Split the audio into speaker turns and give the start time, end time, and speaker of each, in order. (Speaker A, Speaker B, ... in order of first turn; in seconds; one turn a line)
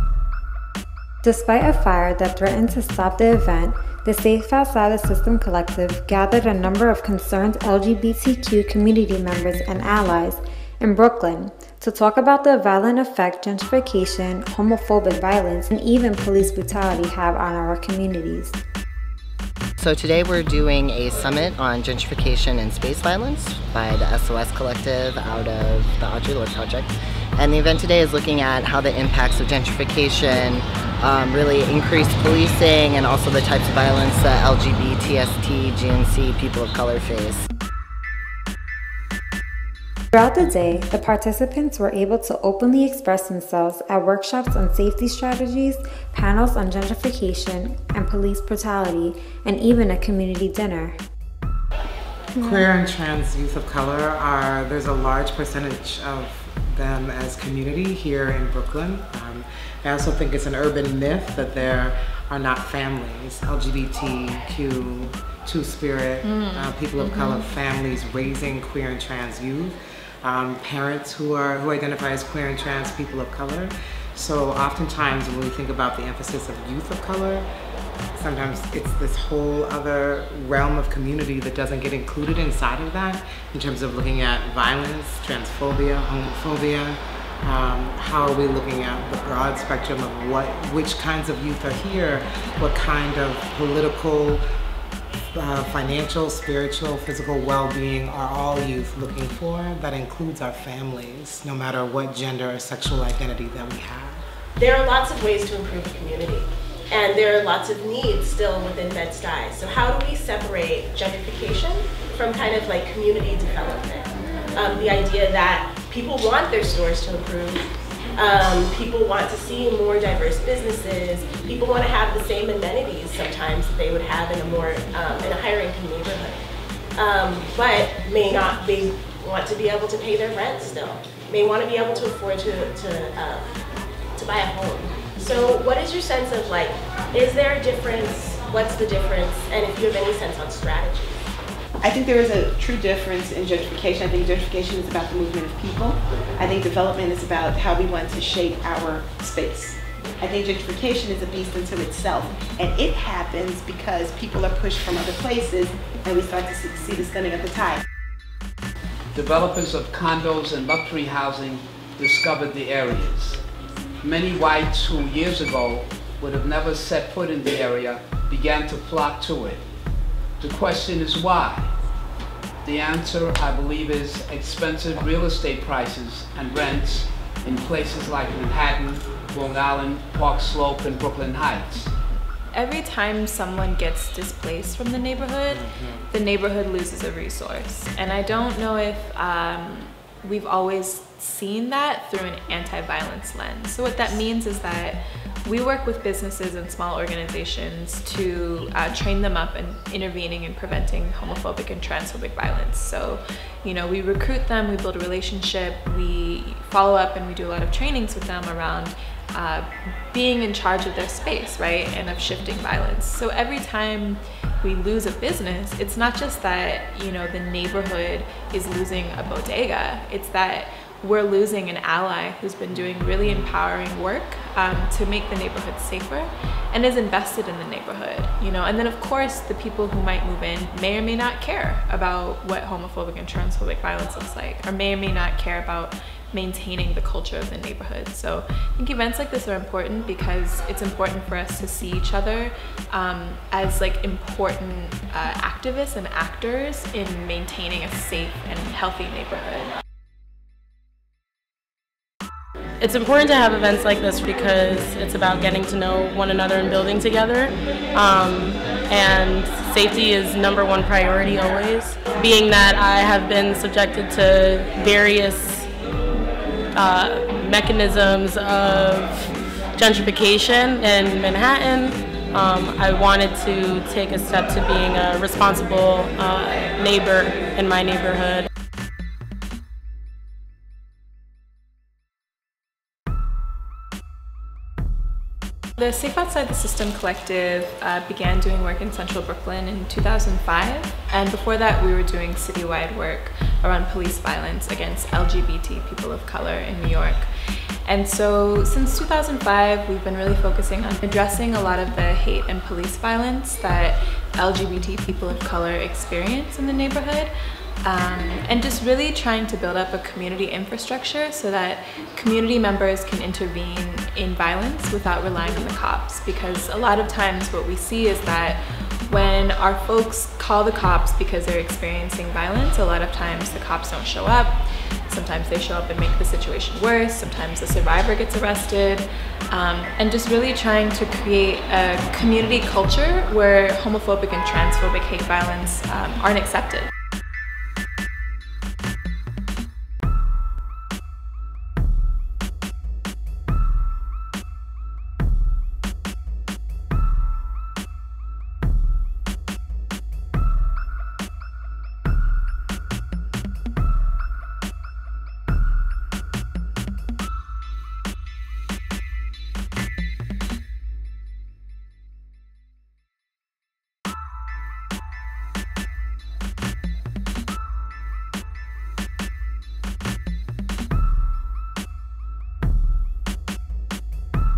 Speaker A: 1.2-18.6
Speaker B: 19.8-37.5
Speaker A: 40.1-51.0
Speaker C: 52.4-77.5
Speaker A: 52.4-52.7
Speaker D: 66.2-67.5
Speaker C: 78.2-94.5
Speaker C: 95.3-104.2
Speaker E: 104.6-117.6
Speaker E: 118.2-126.4
Speaker E: 127.0-133.5
Speaker E: 134.2-141.2
Speaker F: 141.8-157.8
Speaker G: 159.1-163.4
Speaker G: 164.0-169.6
Speaker G: 170.4-171.7
Speaker G: 172.7-181.9
Speaker D: 182.5-249.7
Speaker C: 185.5-186.1
Speaker C: 223.2-223.6
Speaker H: 252.8-265.7
Speaker H: 266.7-278.5
Speaker D: 285.8-297.3
Speaker D: 297.9-307.3
Speaker D: 307.8-336.9